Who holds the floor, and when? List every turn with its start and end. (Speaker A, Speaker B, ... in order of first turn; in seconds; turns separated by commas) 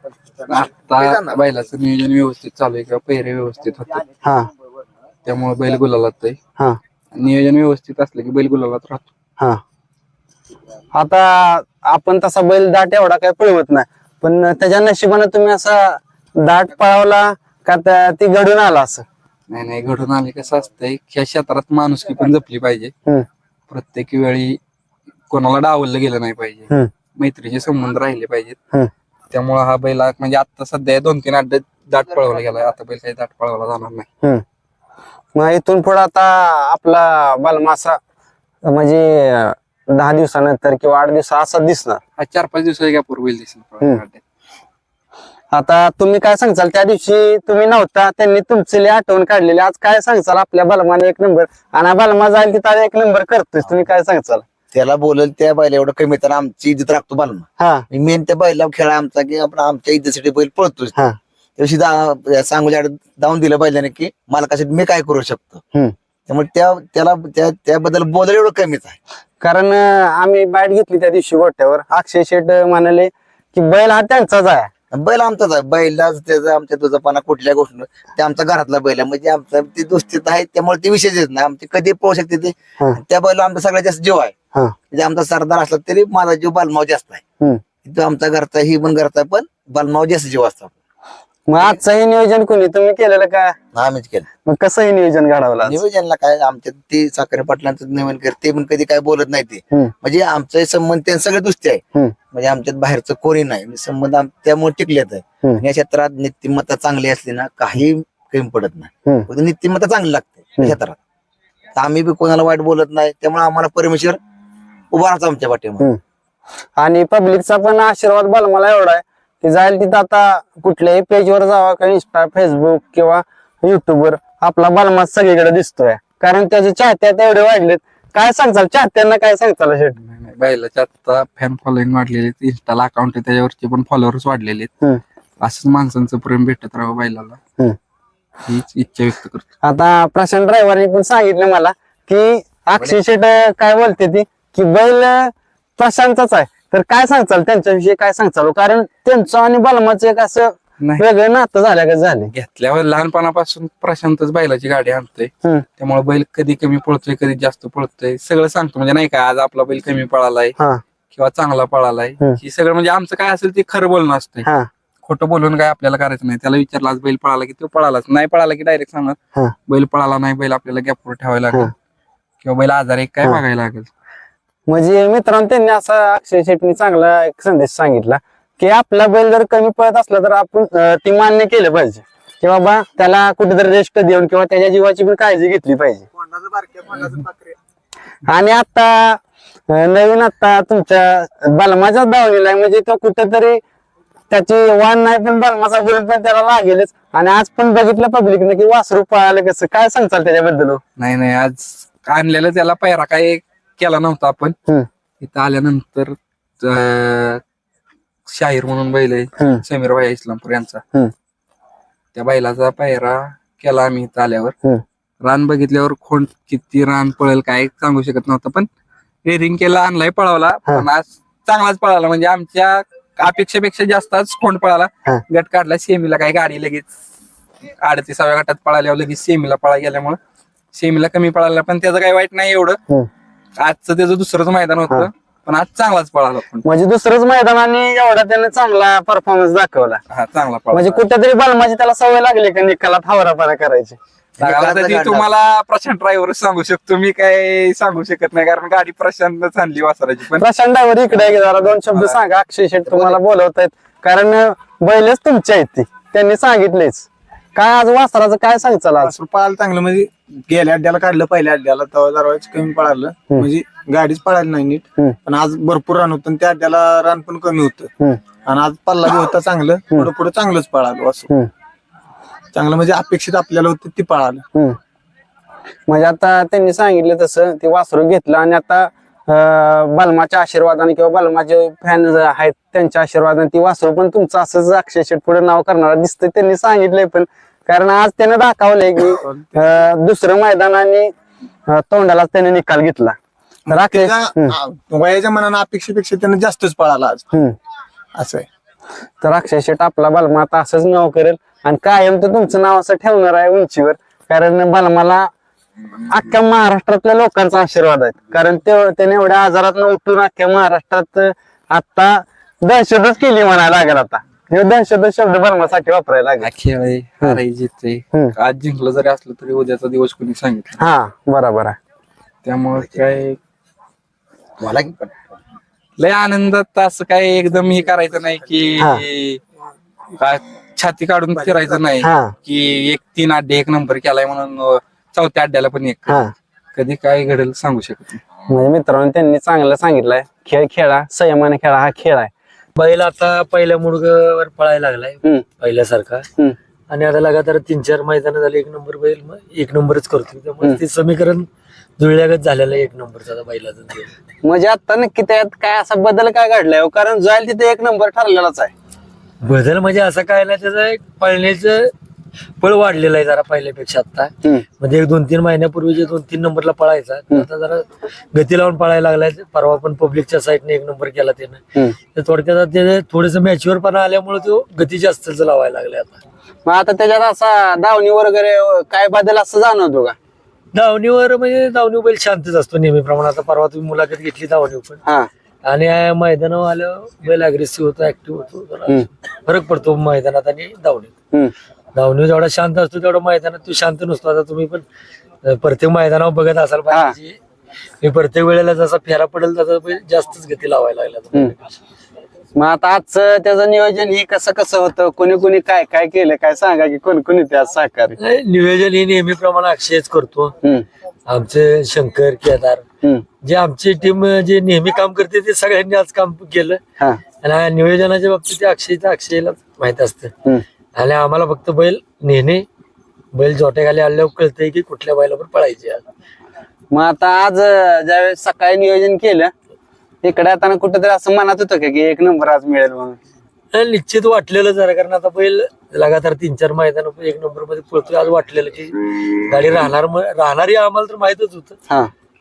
Speaker A: 0.3-1.4, Speaker B: 0.5-4.0, Speaker B: 5.3-6.4, Speaker B: 7.1-9.1, Speaker C: 10.9-19.1, Speaker B: 19.5-22.9, Speaker B: 23.7-24.6, Speaker B: 25.3-28.6, Speaker B: 29.3-34.1, Speaker C: 35.4-38.0, Speaker C: 38.6-42.0, Speaker B: 42.2-44.2, Speaker C: 45.5-54.5, Speaker A: 54.7-60.9, Speaker C: 57.6-57.9, Speaker A: 61.6-65.6, Speaker A: 66.3-69.0, Speaker C: 69.4-74.7, Speaker A: 74.9-84.3, Speaker A: 84.9-87.2, Speaker A: 87.8-90.7, Speaker C: 91.5-93.6, Speaker A: 93.7-94.3, Speaker C: 94.5-95.8, Speaker A: 95.6-111.0, Speaker A: 111.8-114.2, Speaker A: 114.9-115.9, Speaker C: 116.8-130.0, Speaker B: 130.0-134.7, Speaker B: 135.4-137.4, Speaker B: 138.4-139.4, Speaker C: 139.6-152.3, Speaker B: 152.3-160.5, Speaker B: 161.1-164.5, Speaker B: 165.0-171.7, Speaker B: 172.4-173.9, Speaker C: 174.7-186.1, Speaker D: 186.2-187.6, Speaker C: 188.3-193.6, Speaker C: 194.3-200.8, Speaker B: 201.0-204.6, Speaker B: 205.2-207.4, Speaker B: 208.3-210.8, Speaker C: 209.4-209.6, Speaker B: 212.2-214.6, Speaker B: 215.2-218.7, Speaker B: 219.2-226.9, Speaker B: 227.8-230.2, Speaker B: 230.7-232.8, Speaker B: 233.6-236.7, Speaker C: 236.7-240.0, Speaker B: 240.1-241.0, Speaker C: 240.7-244.0, Speaker A: 244.4-245.3, Speaker B: 244.4-250.4, Speaker C: 250.4-259.1, Speaker B: 251.1-252.2, Speaker D: 259.0-267.9, Speaker D: 268.4-271.3, Speaker D: 272.5-274.4, Speaker C: 275.9-291.1, Speaker D: 289.2-289.5, Speaker C: 291.7-293.2, Speaker D: 293.7-297.3, Speaker C: 293.7-294.5, Speaker D: 298.1-298.5, Speaker C: 299.2-305.3, Speaker C: 306.1-316.5, Speaker B: 316.4-320.8, Speaker C: 320.8-321.8, Speaker B: 322.4-323.4, Speaker A: 324.6-325.4, Speaker B: 326.0-329.4, Speaker B: 330.2-336.2, Speaker C: 332.0-332.3, Speaker B: 336.8-338.2, Speaker C: 338.5-342.3, Speaker E: 342.8-346.3, Speaker E: 346.9-351.5, Speaker E: 352.0-354.1, Speaker C: 354.4-358.7, Speaker E: 359.4-361.9, Speaker E: 362.6-371.6, Speaker E: 372.1-376.2, Speaker C: 376.7-380.2, Speaker E: 380.7-385.0, Speaker E: 385.6-391.1, Speaker E: 391.9-394.9, Speaker E: 395.4-397.4, Speaker C: 396.9-397.2, Speaker E: 398.0-401.7, Speaker C: 402.6-408.2, Speaker E: 408.2-410.6, Speaker E: 411.3-412.8, Speaker E: 413.4-416.8, Speaker E: 417.4-420.3, Speaker E: 420.9-422.7, Speaker E: 423.3-426.1, Speaker C: 426.9-429.5, Speaker C: 430.2-433.2, Speaker E: 433.7-441.8